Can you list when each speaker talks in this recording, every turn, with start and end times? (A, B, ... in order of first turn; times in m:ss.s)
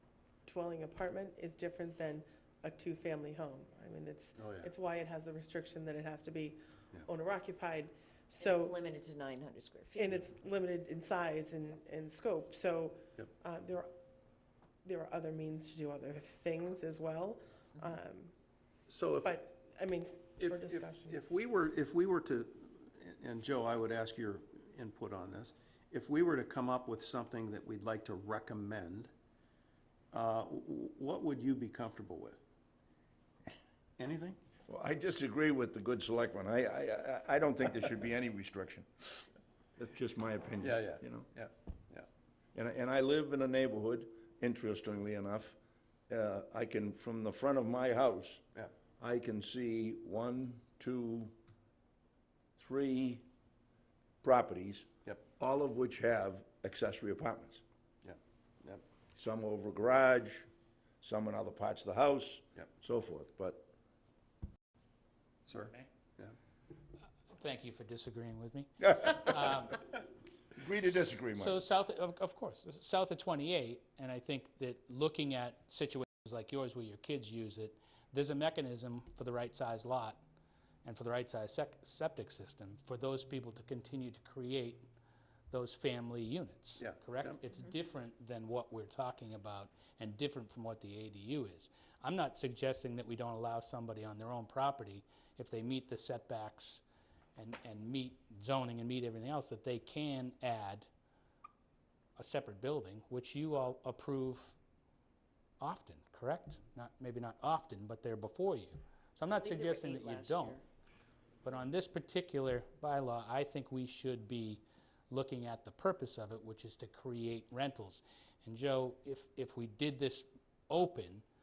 0:00.5-0:08.8 A
0:04.4-0:04.7 B
0:08.3-0:10.2 C
0:10.0-0:13.9 A
0:14.8-0:18.3 A
0:18.9-0:19.5 B
0:19.2-0:21.2 A
0:20.4-0:29.1 B
0:30.1-0:32.4 B
0:34.0-0:34.4 B
0:34.7-0:39.2 D
0:39.8-0:41.3 D
0:40.6-0:42.1 B
0:42.6-0:45.6 D
0:46.1-0:48.4 D
0:49.0-0:51.4 D
0:52.6-0:53.2 D
0:54.2-0:57.6 D
0:58.0-0:58.8 B
0:59.1-1:00.5 D
1:01.0-1:03.7 D
1:05.5-1:06.4 B
1:07.3-1:09.9 E
1:08.8-1:09.7 D
1:10.6-1:11.6 D
1:11.3-1:20.2 E
1:20.8-1:24.9 E
1:25.5-1:36.8 E
1:26.8-1:27.4 B
1:37.4-1:40.9 E
1:42.2-1:44.6 E
1:45.6-1:50.6 E
1:49.3-1:50.6 C
1:51.4-2:01.2 E